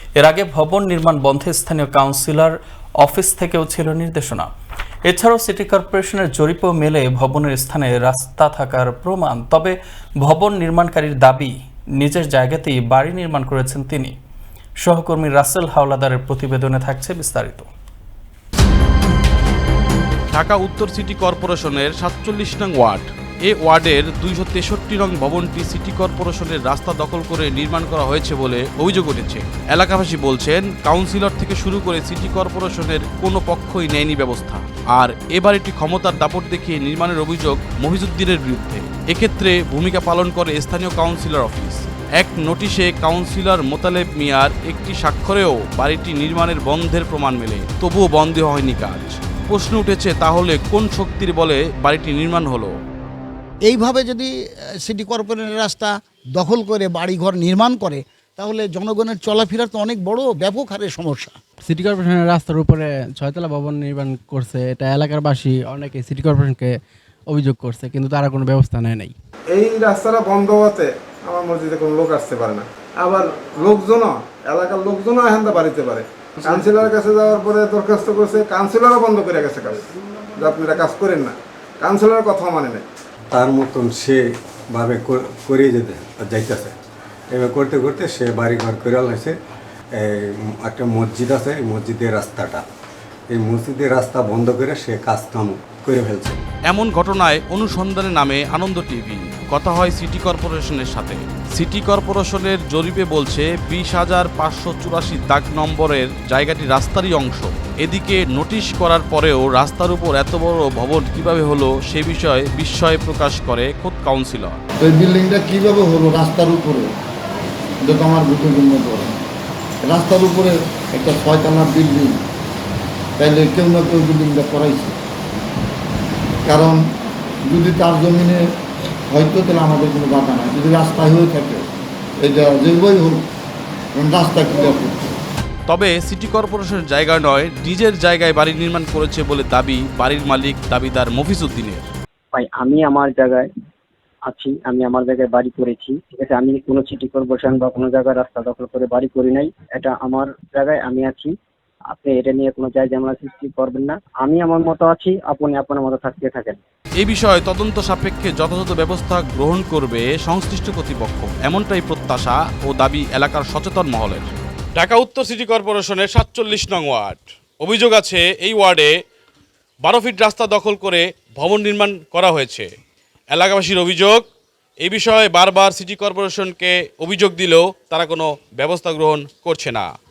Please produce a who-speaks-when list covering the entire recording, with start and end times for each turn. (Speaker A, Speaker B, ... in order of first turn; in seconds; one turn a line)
Speaker A: 0.2-4.5
Speaker A: 5.0-14.1
Speaker A: 14.8-17.7
Speaker B: 20.3-52.8
Speaker C: 53.6-61.4
Speaker D: 61.6-66.7
Speaker D: 67.3-69.1
Speaker E: 69.5-79.8
Speaker E: 80.3-82.8
Speaker F: 83.3-86.7
Speaker F: 87.3-89.3
Speaker F: 90.0-92.6
Speaker F: 93.3-96.4
Speaker B: 96.7-114.6
Speaker G: 114.8-116.9
Speaker G: 117.9-119.2
Speaker G: 119.8-122.2
Speaker G: 123.2-124.9
Speaker G: 126.5-126.8
Speaker G: 127.5-128.4
Speaker G: 129.1-131.7
Speaker G: 132.2-133.3
Speaker G: 133.9-135.2
Speaker B: 135.7-141.9
Speaker H: 142.3-143.5
Speaker H: 144.2-151.3
Speaker H: 151.9-156.6
Speaker B: 157.0-168.9
Speaker B: 169.8-172.7
Speaker B: 173.3-174.2
Speaker B: 174.8-179.9